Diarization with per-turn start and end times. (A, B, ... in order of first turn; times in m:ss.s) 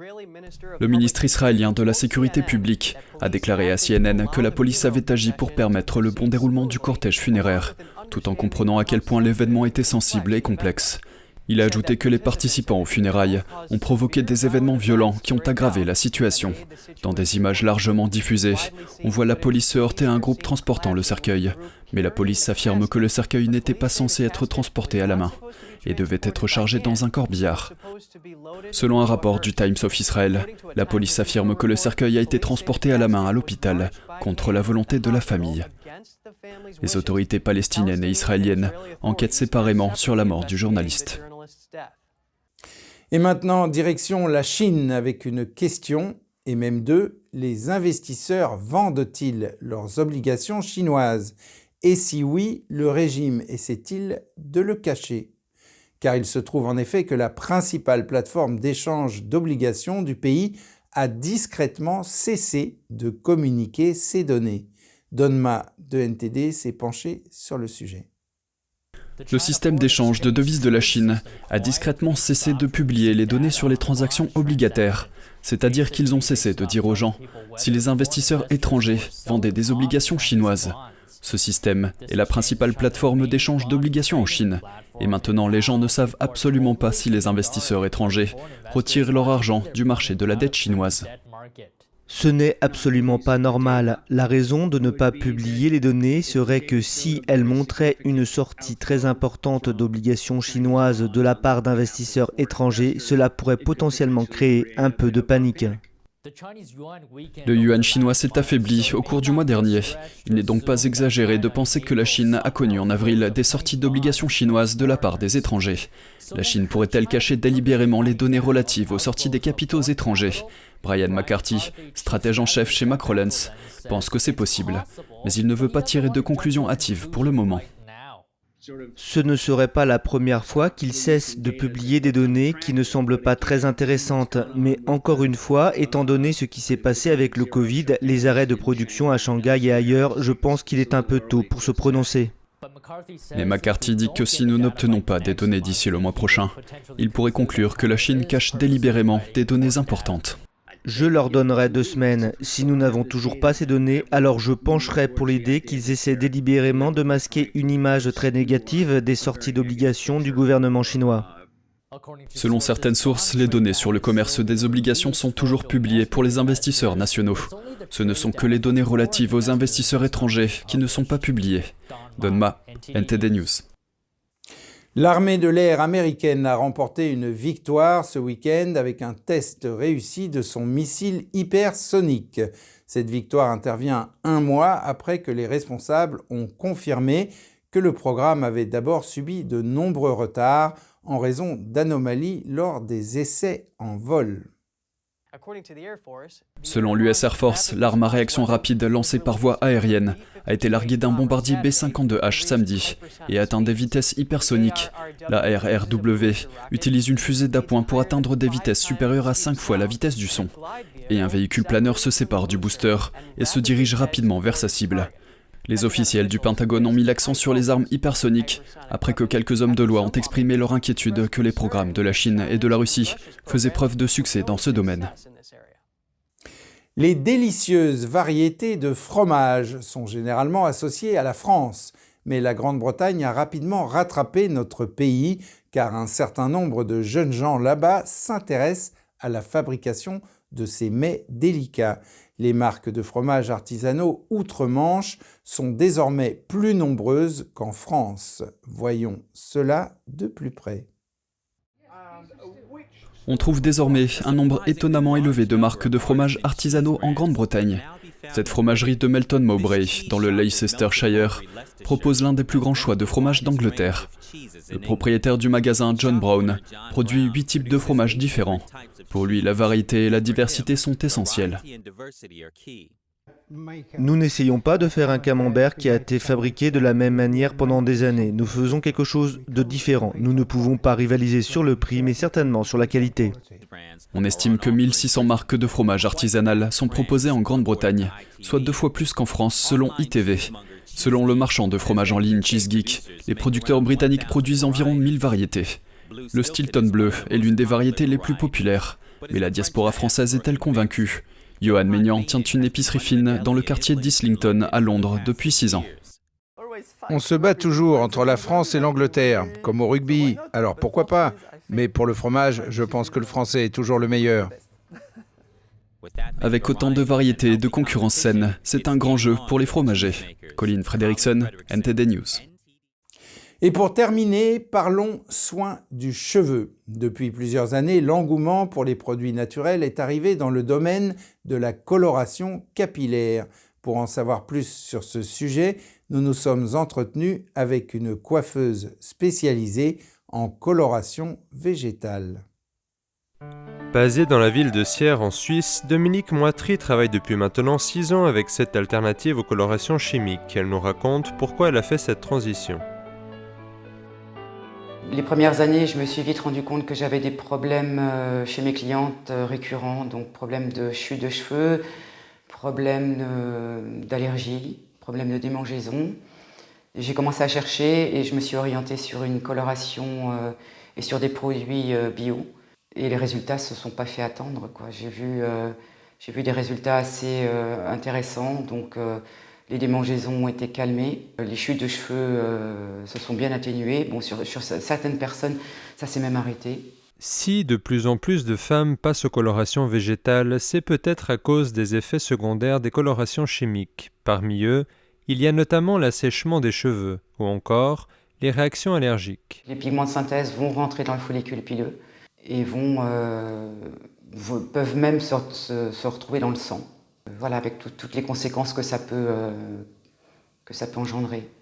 0:00.8-0:27.7 A
0:28.7-0:35.7 A
0:36.8-0:41.2 A
0:43.1-0:55.3 B
0:56.0-1:08.1 B
1:09.3-1:31.1 A
1:32.1-1:45.8 C
1:47.4-2:07.6 A
2:09.0-2:22.3 C
2:23.3-2:30.4 A
2:30.8-2:41.3 C
2:42.3-2:53.6 A
2:54.9-3:14.5 B
3:16.6-3:30.5 A
3:31.1-3:35.1 A
3:35.6-3:45.1 A
3:47.0-4:10.9 B
4:13.2-4:24.1 A
4:24.7-4:31.6 A
4:34.0-4:43.4 C
4:44.1-4:55.8 A
4:56.3-5:05.9 A
5:07.1-5:14.5 B
5:16.4-5:22.4 A
5:23.6-5:42.4 B
5:43.9-5:52.8 D
5:55.1-6:01.8 E
6:02.5-6:06.2 E
6:06.9-6:26.9 E
6:27.2-6:39.6 D
6:39.6-6:49.9 E
6:50.6-6:51.5 E